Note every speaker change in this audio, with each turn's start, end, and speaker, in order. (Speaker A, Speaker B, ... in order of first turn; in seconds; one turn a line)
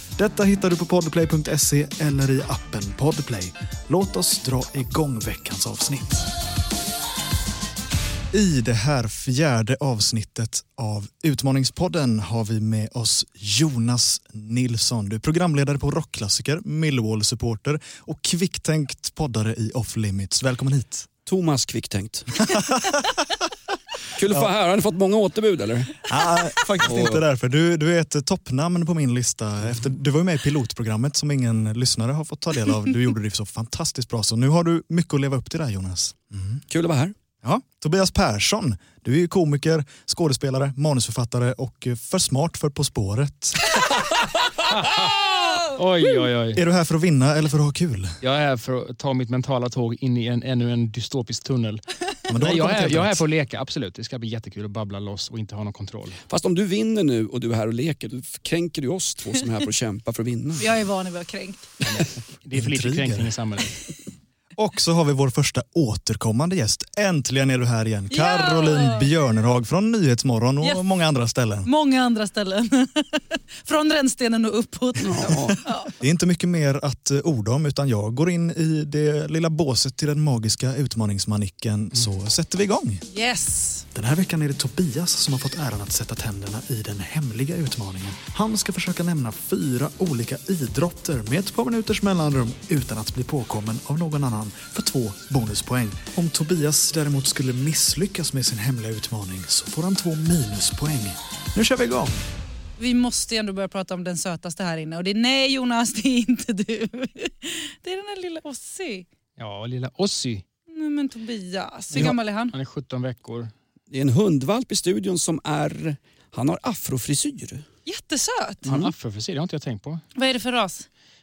Speaker A: 0.2-6.3
Speaker A: 8.3-21.1
Speaker B: 21.3-22.5
Speaker A: 22.5-23.0
Speaker B: 24.1-26.0
Speaker A: 26.1-36.6
Speaker B: 26.8-27.2
Speaker B: 36.7-37.1
Speaker A: 37.4-43.8
Speaker C: 44.7-45.1
Speaker C: 45.7-46.6
Speaker A: 46.5-48.2
Speaker C: 48.2-56.2
Speaker A: 52.3-53.2
Speaker B: 56.3-60.7
Speaker D: 60.6-61.6
Speaker C: 61.8-63.8
Speaker A: 62.5-63.4
Speaker A: 64.6-71.7
Speaker D: 68.1-69.1
Speaker D: 71.7-75.9
Speaker B: 75.0-75.6
Speaker A: 75.4-83.0
Speaker D: 83.1-83.8
Speaker A: 83.9-102.2
Speaker D: 102.8-109.1
Speaker C: 109.4-110.4
Speaker D: 110.7-112.5
Speaker C: 111.9-113.5
Speaker B: 113.9-117.6
Speaker D: 117.9-118.7
Speaker C: 118.7-120.0
Speaker B: 118.7-118.9
Speaker D: 120.2-120.9